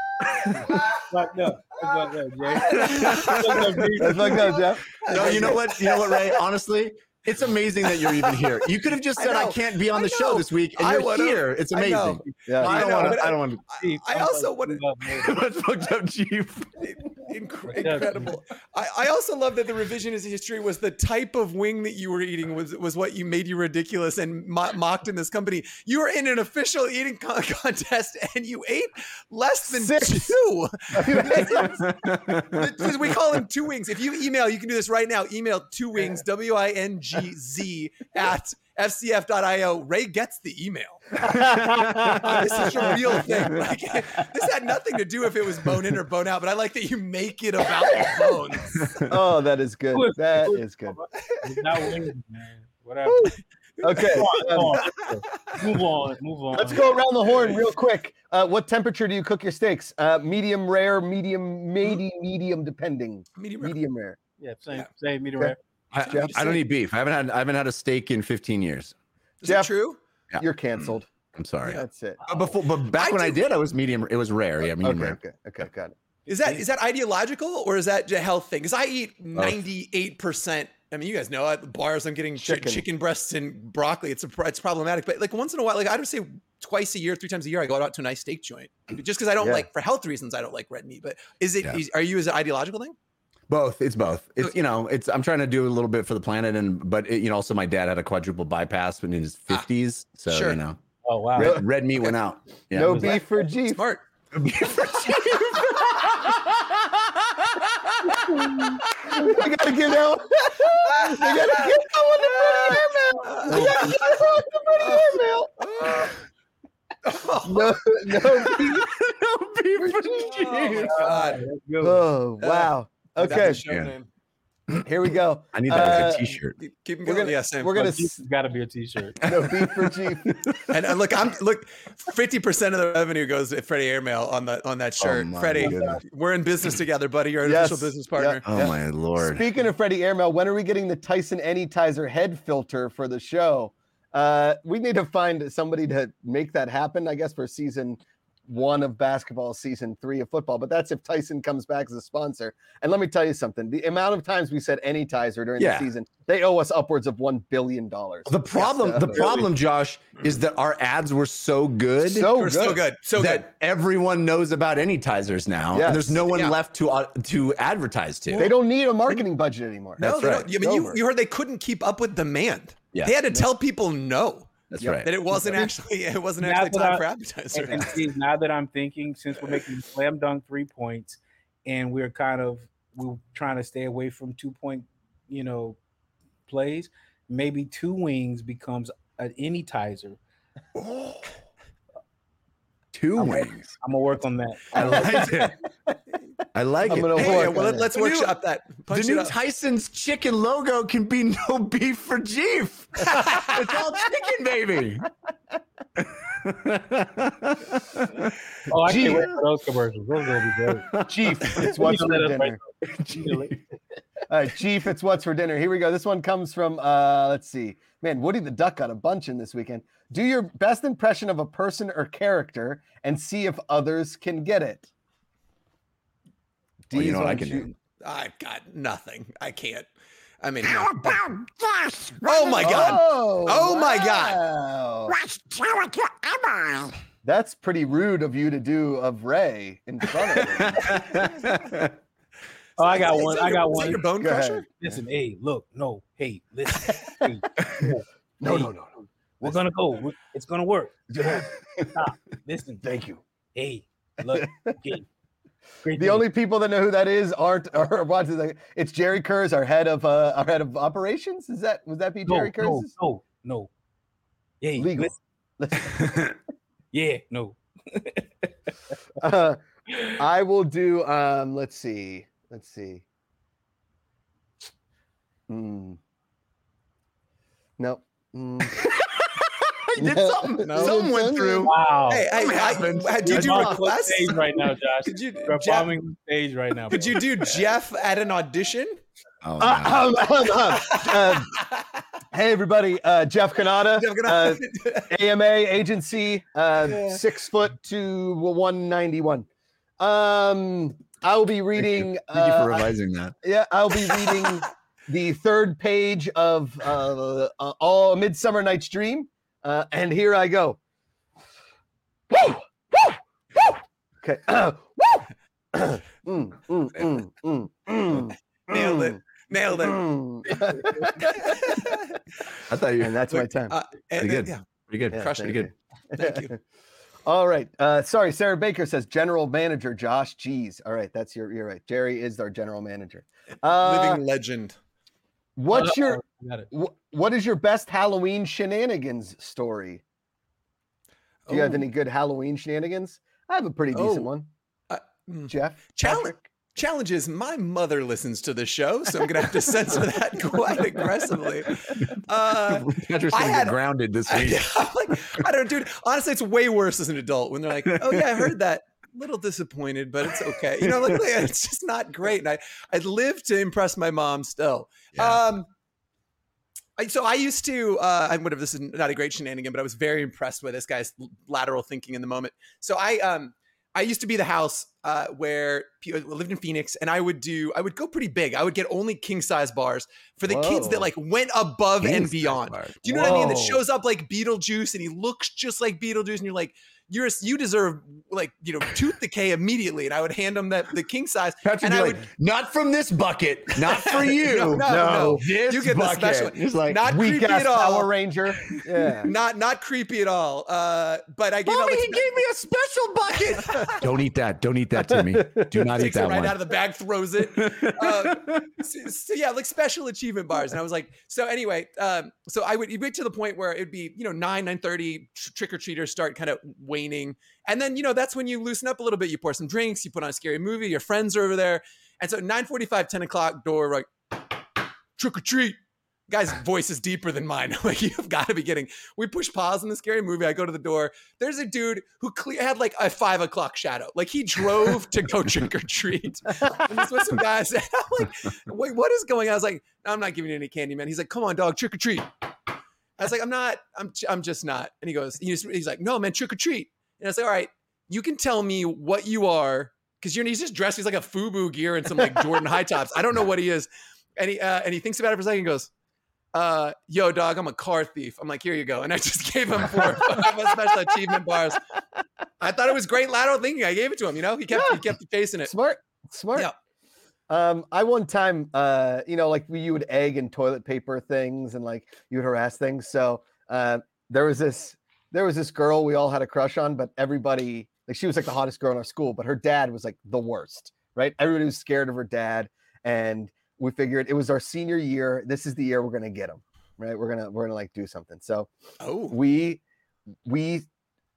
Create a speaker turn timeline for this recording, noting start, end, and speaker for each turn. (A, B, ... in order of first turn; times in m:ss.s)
0:00.5-0:00.8 A
0:00.9-0:04.7 B
0:02.5-0:04.5 C
0:02.8-0:03.6 A
0:04.0-0:05.6 D
0:05.0-0:13.6 A
0:05.0-0:06.4 C
0:07.9-0:08.5 C
0:09.2-0:14.8 C
0:12.5-0:12.8 D
0:13.7-0:15.4 B
0:15.2-0:16.8 A
0:16.8-0:31.9 C
0:17.7-0:18.3 B
0:29.7-0:30.4 D
0:30.9-0:31.9 D
0:31.2-0:33.2 A
0:32.4-0:41.2 C
0:41.2-0:43.3 D
0:41.2-0:43.7 A
0:42.2-0:49.0 C
0:48.0-0:48.3 D
0:48.8-0:49.2 A
0:49.0-0:51.0 D
0:49.9-0:53.4 B
0:53.8-0:54.6 C
0:53.8-0:54.8 D
0:53.9-0:56.8 B
0:56.5-1:04.2 D
0:57.2-0:57.7 C
1:03.4-1:03.8 C
1:04.4-1:05.6 B
1:05.9-1:08.9 A
1:06.0-1:06.6 C
1:06.1-1:06.6 D
1:09.4-1:10.0 C
1:09.4-1:09.7 D
1:10.3-1:15.6 A
1:10.4-1:11.1 D
1:11.6-1:12.2 D
1:12.9-1:13.5 C
1:14.8-1:16.0 D
1:16.3-1:33.0 C
1:22.4-1:22.9 D
1:29.4-1:29.7 D
1:33.5-1:40.8 A
1:40.3-1:40.6 C
1:41.0-1:41.6 B
1:41.4-1:43.2 A
1:41.4-1:41.6 D
1:42.7-1:43.8 D
1:42.8-1:43.2 B
1:43.6-1:44.0 C
1:44.3-1:49.3 A
1:48.5-1:56.1 D
1:50.7-1:54.1 C
1:53.5-1:54.0 B
1:54.8-1:56.2 C
1:57.0-1:57.9 C
1:57.4-1:58.9 D
1:58.1-2:01.1 A
1:59.8-2:00.1 D
2:00.2-2:01.4 C
2:00.8-2:02.1 B
2:01.8-2:03.6 D
2:02.4-2:04.1 C
2:03.3-2:03.9 A
2:04.8-2:06.4 D
2:05.5-2:06.6 A
2:06.6-2:07.7 C
2:07.0-2:08.2 D
2:07.7-2:09.2 B
2:09.2-2:10.6 D
2:09.3-2:10.8 A
2:10.7-2:18.4 C
2:15.0-2:16.0 A
2:17.4-2:39.5 D
2:18.5-2:19.4 A
2:35.6-2:35.9 A
2:38.3-2:42.3 A
2:42.0-2:42.8 D
2:42.2-2:43.5 C
2:43.1-2:48.5 A
2:45.7-2:46.2 D
2:46.3-2:46.6 C
2:48.3-2:48.6 C
2:48.4-2:51.0 D
2:50.0-2:50.5 A
2:50.0-2:58.0 C
2:54.7-2:55.1 A
2:54.8-2:55.6 D
2:56.4-3:05.8 B
3:06.5-3:10.2 B
3:10.8-3:11.2 A
3:12.9-3:13.8 A
3:13.2-3:13.5 D
3:13.8-3:15.2 B
3:14.7-3:15.6 A
3:14.7-3:16.0 D
3:16.5-3:18.4 A
3:16.8-3:17.9 D
3:17.1-3:19.4 C
3:18.9-3:25.1 A
3:23.1-3:23.6 C
3:26.0-3:28.4 A
3:28.7-3:30.9 B
3:28.7-3:29.3 D
3:30.9-3:31.7 A
3:31.0-3:32.6 D
3:31.6-3:33.5 B
3:32.8-3:33.6 A
3:34.3-3:44.9 D
3:46.9-3:47.7 D
3:46.9-3:47.7 A
3:48.0-3:49.9 C
3:50.4-3:51.2 C
3:50.6-3:53.0 A
3:52.2-3:54.4 C
3:52.6-3:55.2 D
3:55.1-3:57.0 A
3:57.2-4:01.2 D
4:00.2-4:02.0 A
4:02.8-4:04.0 B
4:02.8-4:04.6 C
4:04.2-4:04.6 D
4:04.8-4:08.7 B
4:08.4-4:09.6 D
4:09.4-4:12.8 B
4:11.1-4:11.5 D
4:12.8-4:13.2 D
4:13.6-4:15.1 B
4:14.3-4:14.8 D
4:15.8-4:16.3 B
4:16.0-4:22.9 D
4:22.3-4:23.7 B
4:24.6-4:25.2 B
4:24.8-4:26.4 D
4:26.0-4:26.3 A
4:26.9-4:28.5 B
4:29.2-4:33.0 D
4:35.5-4:36.0 D
4:37.8-4:38.8 D
4:38.8-4:41.8 A
4:40.0-4:41.7 D
4:40.6-4:41.0 C
4:41.6-4:42.3 B
4:42.1-4:44.4 C
4:42.3-4:43.9 A
4:43.3-4:47.2 B
4:45.1-4:45.9 C
4:46.9-4:49.0 C
4:49.4-4:50.1 A
4:49.6-4:51.6 D
4:50.9-4:51.4 C
4:52.3-4:59.5 D
4:54.0-4:55.2 C
4:56.8-4:57.2 C
5:00.0-5:02.9 D
5:01.8-5:03.4 A
5:03.4-5:10.8 D
5:12.3-5:19.2 D
5:18.7-5:20.0 C
5:19.7-5:22.0 D
5:21.2-5:22.2 C
5:22.7-5:23.2 A
5:23.0-5:23.7 D
5:23.3-5:24.6 C
5:24.2-5:25.7 A
5:25.1-5:26.6 D
5:25.1-5:25.6 C
5:26.2-5:26.5 C
5:27.3-5:34.2 D
5:33.7-5:34.8 C
5:35.6-5:40.0 D
5:35.7-5:36.7 B
5:41.5-5:41.9 C
5:41.5-5:44.5 D
5:43.9-5:44.3 C
5:44.9-5:53.8 C
5:45.5-5:46.4 D
5:51.9-5:54.7 A
5:54.3-6:05.7 C
5:57.9-5:58.5 A
6:00.8-6:01.4 A
6:05.2-6:05.4 A
6:07.0-6:32.3 C
6:20.5-6:21.1 D
6:22.0-6:23.3 A
6:23.1-6:23.8 D
6:31.6-6:37.1 A
6:33.8-6:38.1 C
6:34.8-6:35.4 D
6:37.0-6:39.3 D
6:39.2-6:42.4 C
6:41.7-6:46.6 A
6:43.4-6:44.0 C
6:45.1-6:45.8 D
6:45.9-7:04.1 C
6:47.5-6:48.8 A
7:05.2-7:05.8 C
7:06.3-7:22.3 C
7:23.2-7:35.9 C
7:36.5-7:41.8 C
7:42.6-7:45.7 C
7:44.7-7:45.0 D
7:45.6-7:46.7 D
7:47.5-8:08.7 D
8:09.0-8:09.4 C
8:09.3-8:09.8 D
8:10.5-8:10.9 D